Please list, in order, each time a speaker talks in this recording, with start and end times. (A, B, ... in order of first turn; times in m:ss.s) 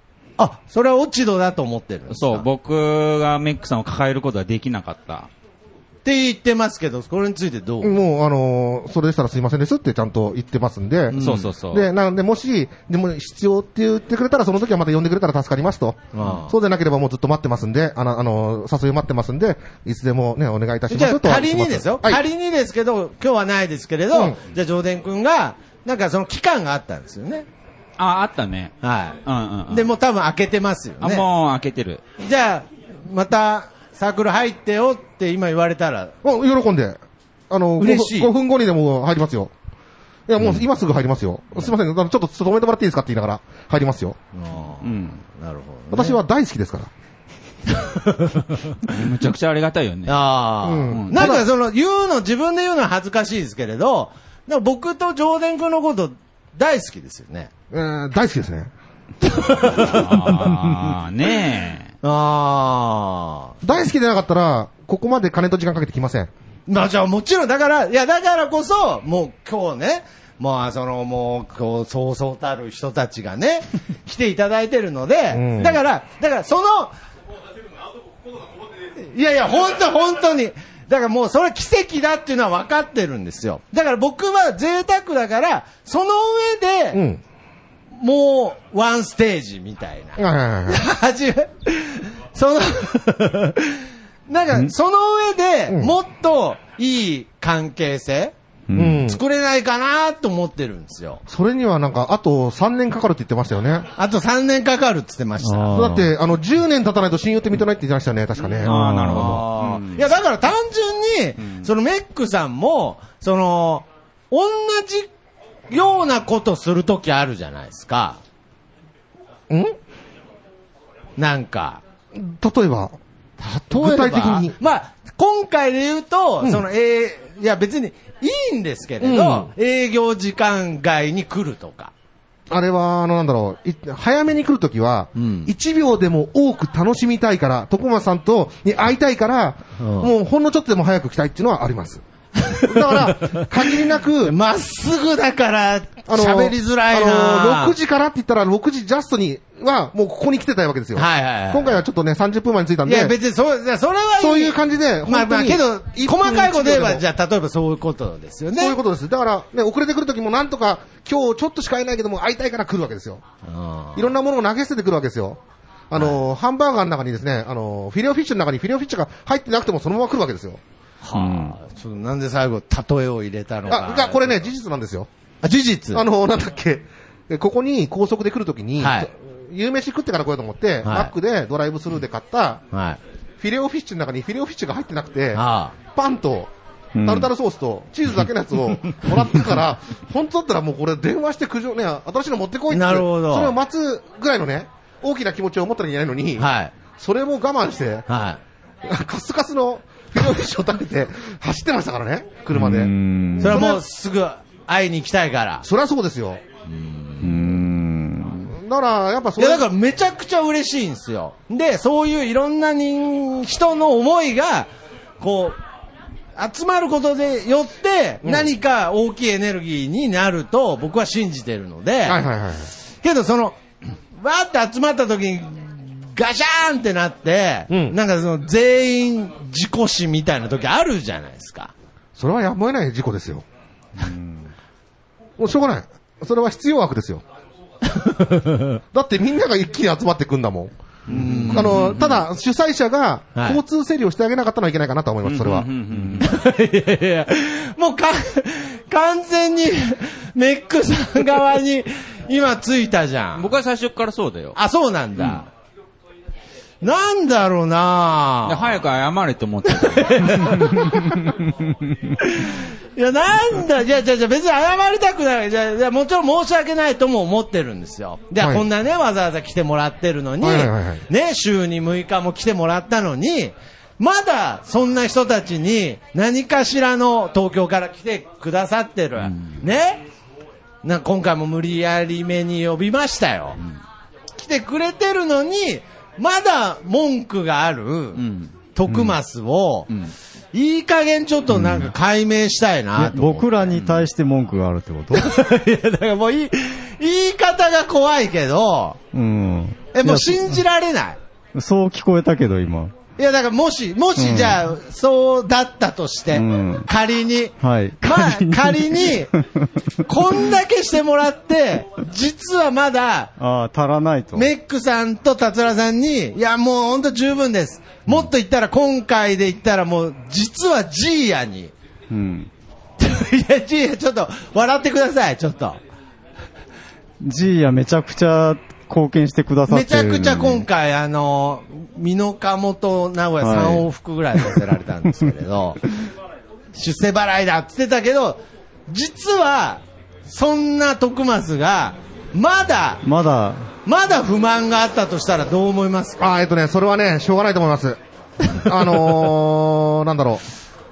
0:00.4-0:02.5 A
0:02.1-0:05.3 B
0:06.0-0:08.0 A
0:07.8-0:22.2 C
0:11.1-0:11.5 A
0:11.2-0:11.9 B
0:16.1-0:16.5 A
0:20.9-0:27.4 A
0:28.0-0:28.7 B
0:28.8-0:31.2 A
0:29.2-0:29.9 B
0:31.0-0:32.0 B
0:32.2-0:36.1 A
0:36.2-0:39.5 C
0:37.8-0:38.3 A
0:40.3-0:44.2 C
0:44.3-0:46.2 A
0:44.8-0:45.2 B
0:45.9-0:46.9 C
0:47.7-0:48.8 A
0:48.9-0:50.2 B
0:50.1-0:57.5 A
0:50.6-0:51.4 C
0:50.9-0:51.4 B
0:57.7-0:58.7 C
0:59.2-1:00.4 A
0:59.6-1:01.9 B
1:02.0-1:03.6 A
1:03.6-1:06.3 C
1:06.7-1:16.9 A
1:15.3-1:15.8 C
1:18.9-1:27.0 A
1:26.9-1:27.2 C
1:27.9-1:38.3 A
1:30.2-1:30.8 C
1:35.7-1:35.9 C
1:38.7-1:39.0 D
1:38.7-1:39.2 C
1:39.0-1:41.2 A
1:41.3-1:43.9 C
1:44.0-1:45.8 A
1:45.4-1:46.1 D
1:45.7-1:48.9 C
1:48.6-1:50.1 B
1:48.6-1:49.4 D
1:49.0-1:55.1 A
1:51.4-1:51.7 B
1:55.7-1:58.2 A
1:59.5-1:59.8 C
2:01.2-2:01.8 A
2:02.1-2:03.0 C
2:03.4-2:11.9 A
2:03.7-2:04.5 C
2:09.0-2:09.5 C
2:12.5-2:22.0 C
2:15.2-2:15.5 A
2:19.8-2:20.1 A
2:22.4-2:27.8 A
2:22.5-2:24.4 C
2:26.1-2:33.2 C
2:30.9-2:31.8 A
2:32.8-2:38.8 A
2:34.2-2:37.0 C
2:38.6-2:43.2 C
2:43.4-2:44.1 A
2:43.9-2:50.6 C
2:51.0-2:54.4 A
2:51.1-2:51.6 D
2:53.7-2:55.1 C
2:55.4-2:56.0 A
2:55.9-3:02.6 C
2:58.8-2:59.1 A
3:00.8-3:01.1 A
3:02.7-3:03.0 A
3:03.4-3:06.5 C
3:05.3-3:05.7 A
3:06.9-3:07.3 D
3:07.0-3:18.1 C
3:12.7-3:13.5 A
3:16.4-3:16.7 A
3:18.1-3:18.4 A
3:18.8-3:23.8 C
3:22.5-3:23.6 D
3:23.4-3:25.6 A
3:25.6-3:26.4 C
3:26.6-3:27.6 A
3:27.2-3:28.4 D
3:28.5-3:29.7 C
3:29.4-3:34.7 A
3:35.2-3:35.6 A
3:36.4-3:42.2 A
3:38.2-3:38.5 C
3:42.0-3:42.7 C
3:43.0-3:43.6 A
3:44.2-3:51.7 A
3:47.7-3:48.0 C
3:52.2-3:53.4 C
3:55.4-3:57.2 C
3:57.9-3:58.8 A
3:58.9-4:00.7 C
4:01.1-4:01.9 A
4:01.4-4:02.2 B
4:01.5-4:05.7 C
4:03.4-4:03.6 A
4:05.2-4:06.3 B
4:06.2-4:13.5 A
4:13.4-4:14.6 B
4:14.5-4:15.5 A
4:15.2-4:15.4 B
4:16.8-4:18.8 A
4:18.4-4:20.8 B
4:19.7-4:21.3 A
4:22.2-4:40.0 A
4:28.4-4:28.6 C
4:30.4-4:31.0 C
4:39.2-4:39.6 B
4:40.8-4:43.6 A
4:44.4-4:48.2 A
4:48.2-4:48.5 B
4:48.7-4:49.9 A
4:50.5-4:53.8 A
4:51.5-4:51.9 D
4:53.0-4:55.4 D
4:53.7-4:54.1 B
4:55.1-4:59.0 A
4:59.1-5:00.6 D
4:59.9-5:01.2 A
5:01.5-5:02.9 D
5:03.2-5:09.3 A
5:04.2-5:04.6 D
5:06.3-5:06.9 D
5:07.6-5:09.2 D
5:10.0-5:13.3 A
5:13.4-5:14.5 D
5:14.3-5:21.7 A
5:22.1-5:22.5 D
5:23.0-5:25.8 A
5:27.2-5:30.6 D
5:29.7-5:35.8 A
5:33.4-5:33.9 D
5:36.7-5:43.0 A
5:43.0-5:43.7 D
5:43.8-5:46.3 A
5:46.2-5:48.0 C
5:48.5-5:50.4 C